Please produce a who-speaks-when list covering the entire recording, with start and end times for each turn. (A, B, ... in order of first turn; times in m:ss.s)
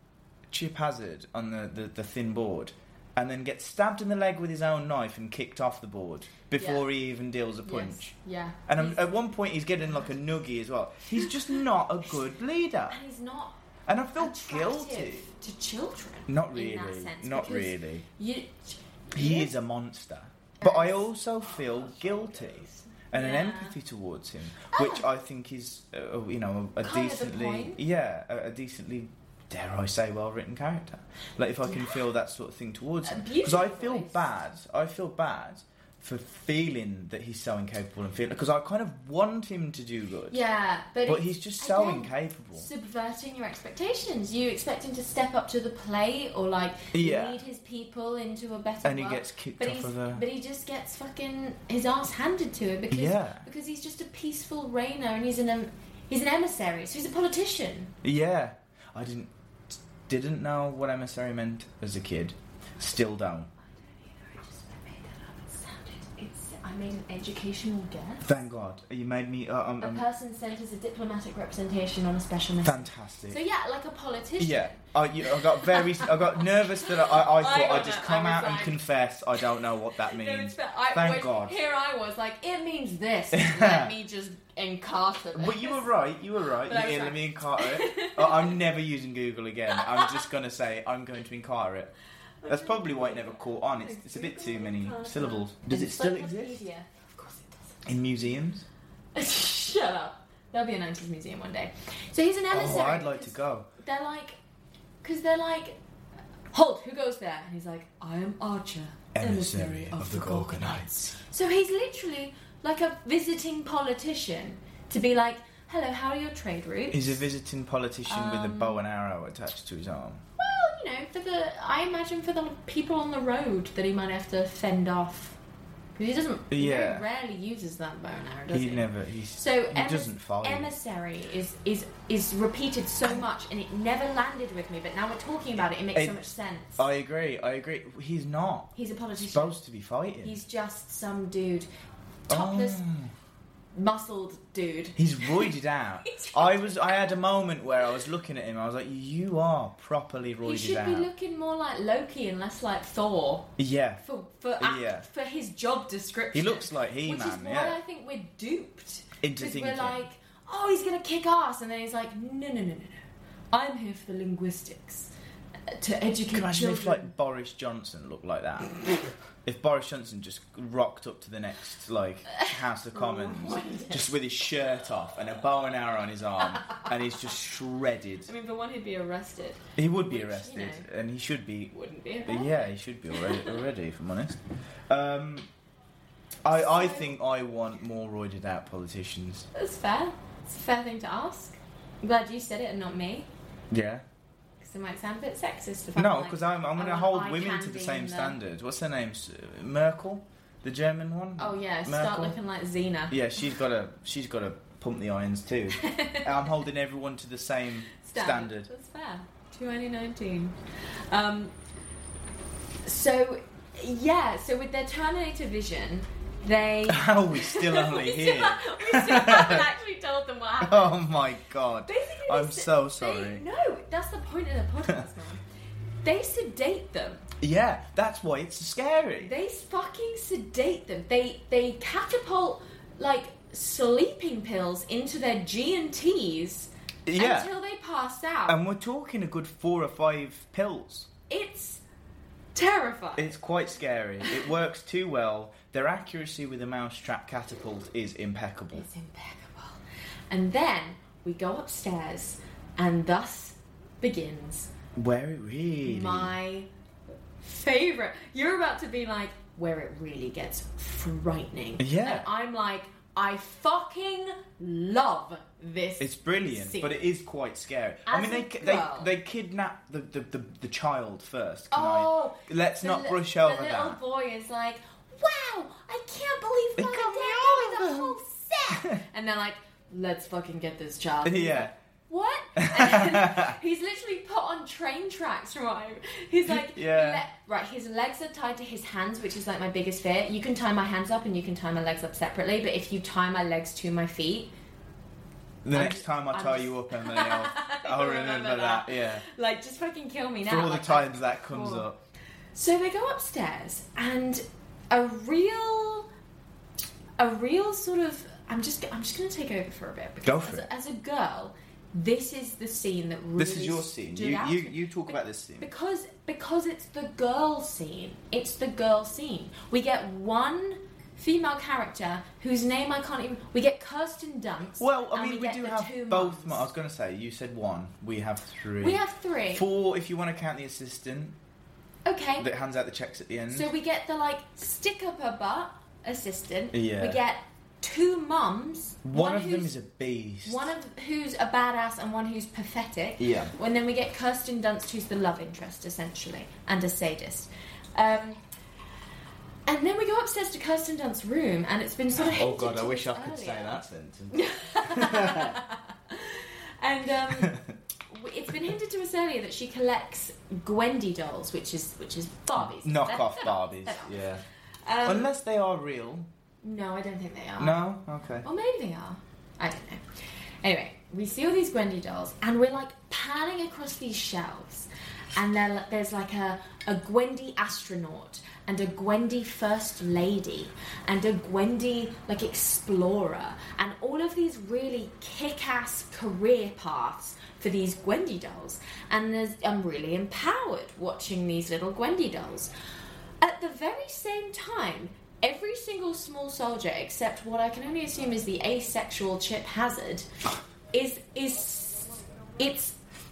0:00.5-0:08.1 A
0:06.6-0:06.8 B
0:07.6-0:09.0 B
0:08.7-0:13.0 A
0:12.9-0:13.6 B
0:13.9-0:15.3 A
0:14.2-0:19.5 B
0:16.3-0:18.0 A
0:19.1-0:40.4 A
0:20.6-0:23.8 B
0:24.7-0:25.0 B
0:26.8-0:27.8 B
0:31.6-0:31.9 B
0:33.0-0:34.2 B
0:40.3-0:57.9 B
0:41.0-0:42.7 A
0:46.9-0:47.4 A
0:48.8-0:50.2 A
0:52.9-0:53.4 A
0:58.0-1:03.5 A
1:03.9-1:08.4 B
1:08.2-1:10.0 A
1:09.8-1:18.8 B
1:12.6-1:13.4 A
1:14.4-1:21.6 A
1:20.0-1:25.9 B
1:23.3-1:23.9 A
1:25.3-1:31.9 A
1:26.6-1:28.5 B
1:29.8-1:30.2 B
1:32.4-1:37.8 B
1:32.5-1:36.6 A
1:37.8-1:38.6 A
1:39.1-1:44.4 B
1:42.5-1:43.7 A
1:45.0-1:45.8 B
1:46.5-1:57.2 B
1:49.1-1:51.1 A
1:56.9-2:00.2 A
1:58.1-1:58.8 B
2:00.4-2:05.4 B
2:06.0-2:16.8 B
2:06.5-2:07.0 A
2:08.5-2:10.7 A
2:16.8-2:18.7 A
2:18.7-2:19.5 B
2:19.2-2:20.4 A
2:20.2-2:21.7 B
2:22.3-2:22.8 B
2:22.3-2:23.1 A
2:23.7-2:25.5 B
2:25.0-2:31.1 A
2:26.0-2:27.1 B
2:30.4-2:33.5 B
2:33.6-2:34.0 A
2:34.0-2:43.0 B
2:34.6-2:35.0 A
2:36.3-2:37.8 A
2:39.2-2:40.0 A
2:43.5-2:45.1 B
2:45.7-2:47.1 B
2:46.3-2:48.8 A
2:49.4-2:58.3 A
2:52.3-2:54.2 B
2:56.6-2:56.9 B
2:58.2-3:00.8 B
2:59.8-3:01.7 A
3:01.7-3:03.6 B
3:02.2-3:05.5 A
3:06.4-3:09.5 A
3:06.5-3:07.1 B
3:09.5-3:13.3 B
3:13.7-3:14.0 A
3:14.6-3:18.4 B
3:16.0-3:22.4 A
3:21.4-3:23.2 B
3:23.1-3:28.7 A
3:25.7-3:26.3 B
3:28.0-3:31.5 B
3:32.8-3:41.0 B
3:36.9-3:39.6 A
3:40.6-3:43.4 A
3:41.9-3:45.4 B
3:46.0-3:47.2 B
3:47.4-3:49.3 A
3:49.2-3:58.6 B
3:57.0-3:57.5 A
3:58.5-4:01.1 A
4:01.3-4:01.8 B
4:02.5-4:03.3 B
4:03.2-4:08.9 A
4:04.2-4:04.5 B
4:08.7-4:14.7 B
4:15.0-4:16.3 A
4:15.8-4:16.7 B
4:17.4-4:26.9 B
4:21.8-4:22.2 A
4:26.0-4:34.0 A
4:28.1-4:29.1 B
4:31.7-4:54.5 B
4:36.8-4:38.2 A
4:38.7-4:39.0 A
4:41.2-4:41.7 A
4:42.6-4:43.5 A
4:46.4-4:47.2 A
4:55.6-4:59.2 A
4:55.7-5:01.9 B
5:00.4-5:02.0 A
5:02.5-5:06.1 B
5:07.2-5:26.6 B
5:10.2-5:10.7 A
5:13.4-5:15.7 A
5:24.8-5:29.0 A
5:28.8-5:29.6 B
5:29.5-5:31.3 A
5:32.0-5:32.5 B
5:32.4-5:33.7 A
5:33.5-5:39.7 B
5:36.7-5:37.2 A
5:39.0-5:40.7 A
5:40.4-5:48.4 B
5:43.2-5:43.5 A
5:49.6-5:57.6 B
5:52.2-5:55.6 A
5:57.3-5:57.8 A
5:58.1-6:05.3 B
6:02.6-6:04.4 A
6:05.0-6:06.3 A
6:06.6-6:07.8 B
6:07.6-6:08.4 A
6:08.4-6:10.0 B
6:10.6-6:32.7 B
6:33.4-6:40.3 B
6:40.9-6:43.0 B